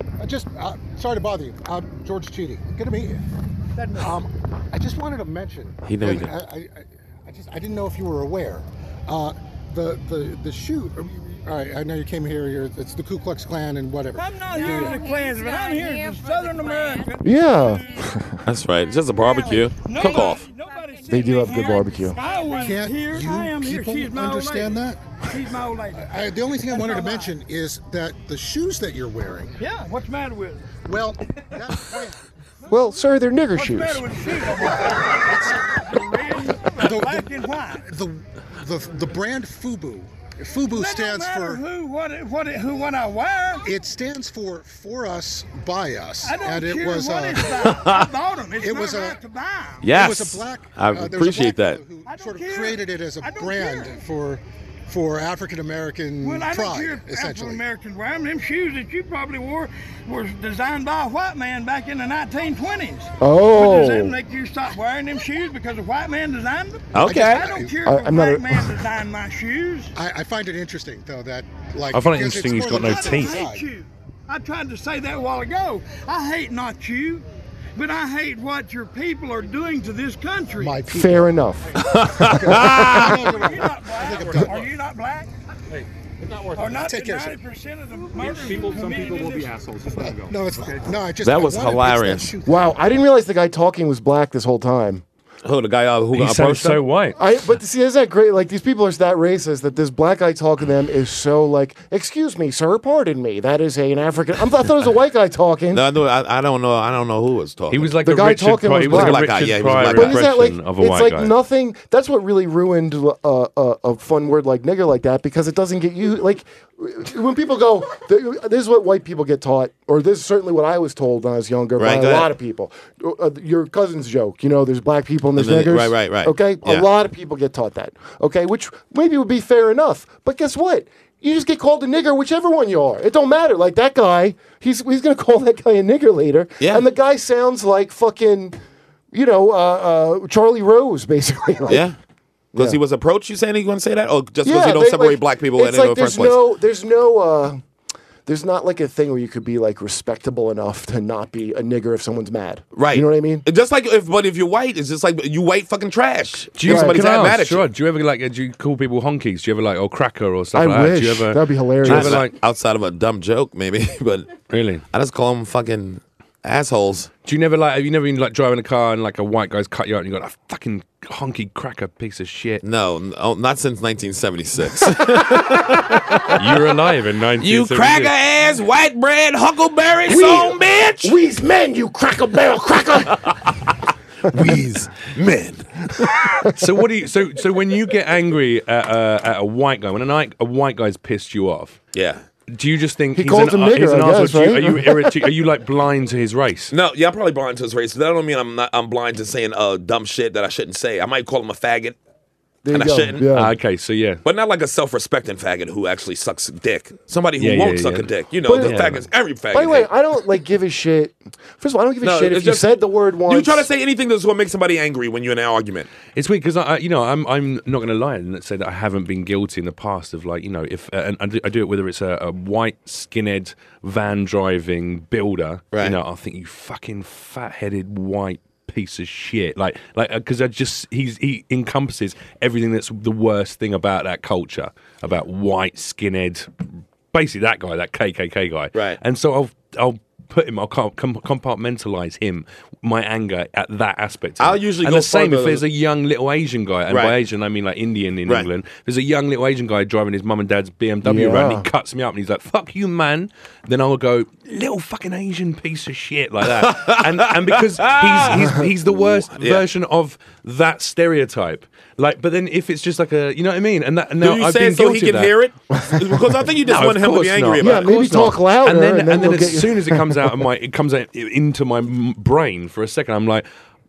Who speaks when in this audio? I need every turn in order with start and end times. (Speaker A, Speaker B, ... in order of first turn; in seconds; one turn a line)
Speaker A: 0.2-3.2
Speaker A: 3.9-15.1
Speaker B: 5.9-6.3
Speaker C: 14.2-17.9
Speaker D: 17.2-18.4
Speaker B: 18.4-20.4
Speaker C: 19.1-27.4
Speaker D: 21.1-22.2
Speaker A: 22.6-25.0
Speaker A: 26.0-29.6
Speaker C: 29.6-30.8
Speaker A: 30.8-32.2
Speaker D: 32.7-34.1
Speaker C: 33.5-37.9
Speaker A: 34.7-35.6
Speaker A: 36.8-37.3
Speaker A: 37.9-41.6
Speaker C: 40.7-43.6
Speaker A: 43.6-47.9
Speaker C: 46.2-50.1
Speaker B: 47.7-48.0
Speaker A: 48.6-49.2
Speaker B: 49.8-51.8
Speaker A: 49.8-57.6
Speaker C: 52.0-54.0
Speaker C: 56.2-69.9
Speaker D: 63.2-64.2
Speaker B: 66.9-67.5
Speaker A: 67.3-67.8
Speaker D: 67.8-68.7
Speaker A: 70.0-73.7
Speaker E: 71.9-73.4
Speaker C: 72.6-80.8
Speaker A: 80.6-81.4
Speaker D: 80.9-83.3
Speaker B: 81.8-83.2
Speaker A: 82.4-84.7
Speaker C: 83.2-85.3
Speaker C: 86.5-89.7
Speaker A: 86.7-87.4
Speaker A: 89.8-92.6
Speaker B: 91.2-92.3
Speaker D: 92.5-95.0
Speaker B: 95.4-96.8
Speaker E: 96.1-97.2
Speaker D: 97.2-105.8
Speaker B: 105.7-108.0
Speaker E: 107.7-111.3
Speaker D: 108.0-109.3
Speaker B: 108.9-110.3
Speaker D: 109.9-138.6
Speaker B: 121.8-122.3
Speaker B: 125.4-126.9
Speaker D: 139.1-141.9
Speaker B: 141.7-142.0
Speaker B: 142.6-146.4
Speaker D: 144.4-147.6
Speaker D: 148.3-153.4
Speaker B: 152.7-157.7
Speaker E: 156.5-162.3
Speaker D: 156.7-157.0
Speaker D: 160.5-162.2
Speaker B: 161.8-164.4
Speaker E: 164.5-164.8
Speaker B: 164.9-167.1
Speaker E: 167.2-172.6
Speaker B: 172.6-176.4
Speaker E: 176.3-178.2
Speaker B: 177.4-181.2
Speaker D: 180.1-183.4
Speaker D: 184.3-184.7
Speaker B: 184.3-185.7
Speaker E: 186.6-191.8
Speaker B: 191.9-192.2
Speaker E: 192.5-196.7
Speaker D: 193.2-195.2
Speaker B: 196.7-202.0
Speaker D: 202.7-203.5
Speaker B: 202.7-203.3
Speaker E: 203.3-204.2
Speaker B: 204.2-209.9
Speaker E: 207.4-209.1
Speaker D: 208.5-209.0
Speaker D: 209.5-213.7
Speaker B: 212.0-212.7
Speaker B: 213.3-215.9
Speaker E: 216.1-236.5
Speaker B: 225.7-226.0
Speaker E: 237.1-265.3
Speaker B: 244.4-245.6
Speaker B: 246.9-247.2
Speaker D: 251.0-251.7
Speaker B: 256.5-259.6
Speaker B: 264.2-267.9
Speaker D: 265.8-266.3
Speaker E: 266.6-273.4
Speaker D: 267.6-270.3